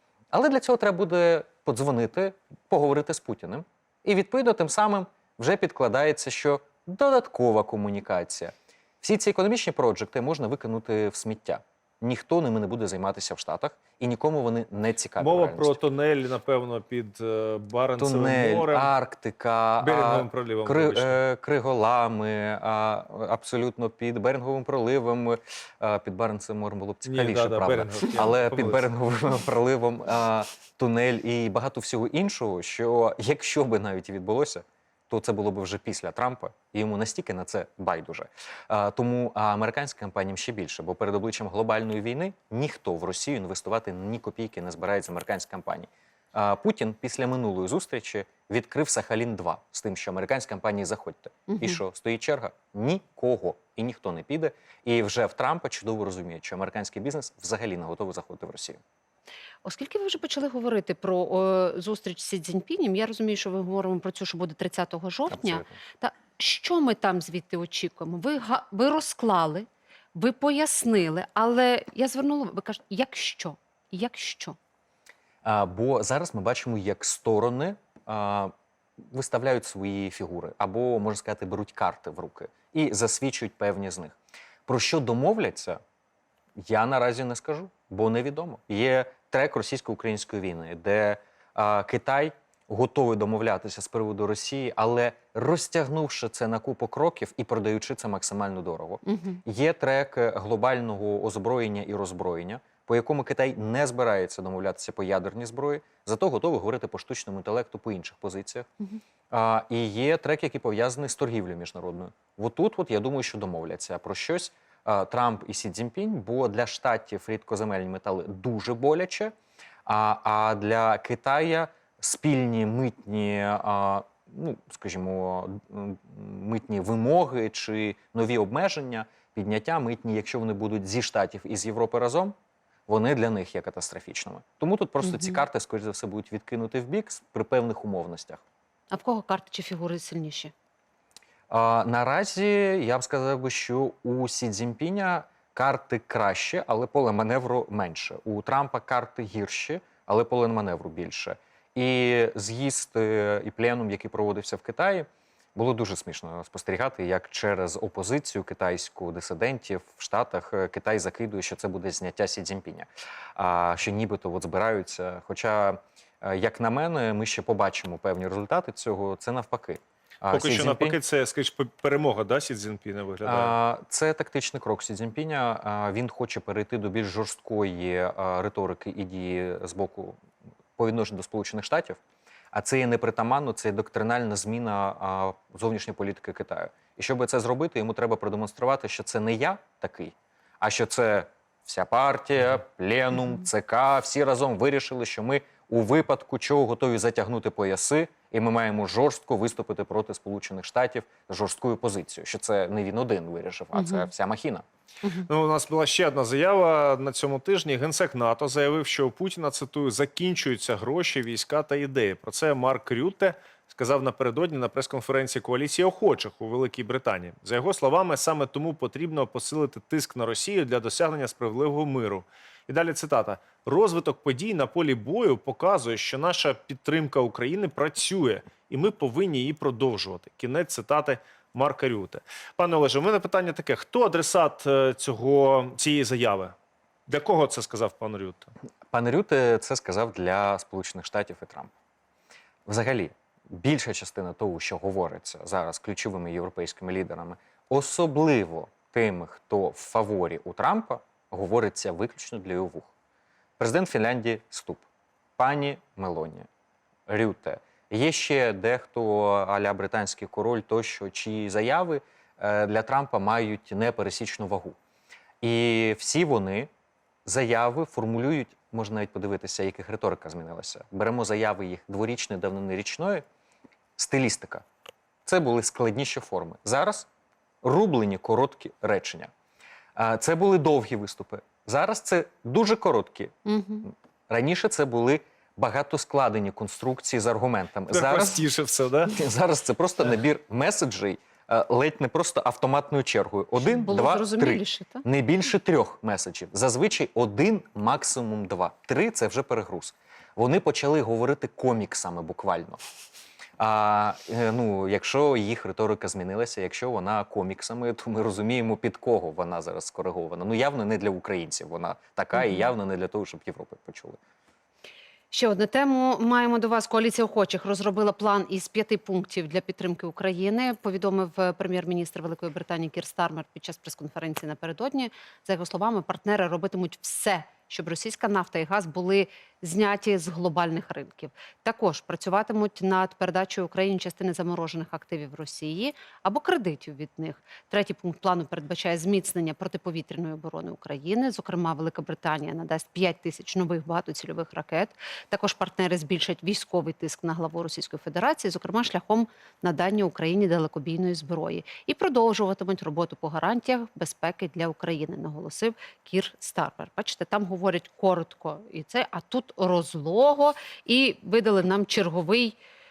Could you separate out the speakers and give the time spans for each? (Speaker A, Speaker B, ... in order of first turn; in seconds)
Speaker A: 0.3-15.8, 18.0-58.8, 65.3-65.7, 75.4-78.5, 79.1-85.8, 86.6-108.7, 109.3-119.3, 119.9-132.3, 132.9-138.4, 141.5-171.0, 173.2-180.2, 180.8-182.0, 182.5-204.7, 238.9-241.7, 242.7-252.9, 253.6-254.8, 255.4-256.5, 257.1-264.8, 265.4-266.7, 267.2-273.2, 274.0-274.6, 275.3-277.1, 277.6-279.3, 280.0-288.4, 289.1-302.8, 303.6-314.2
Speaker B: 15.2-18.9, 19.8-21.2, 27.1-28.9, 170.3-173.6, 205.3-236.6, 237.1-238.5, 287.9-289.2
Speaker C: 51.5-51.8, 59.6-74.6, 99.0-99.4, 135.0-135.4, 138.9-140.5, 203.7-204.1, 283.5-283.9, 293.6-295.0, 312.4-312.6, 315.3-362.6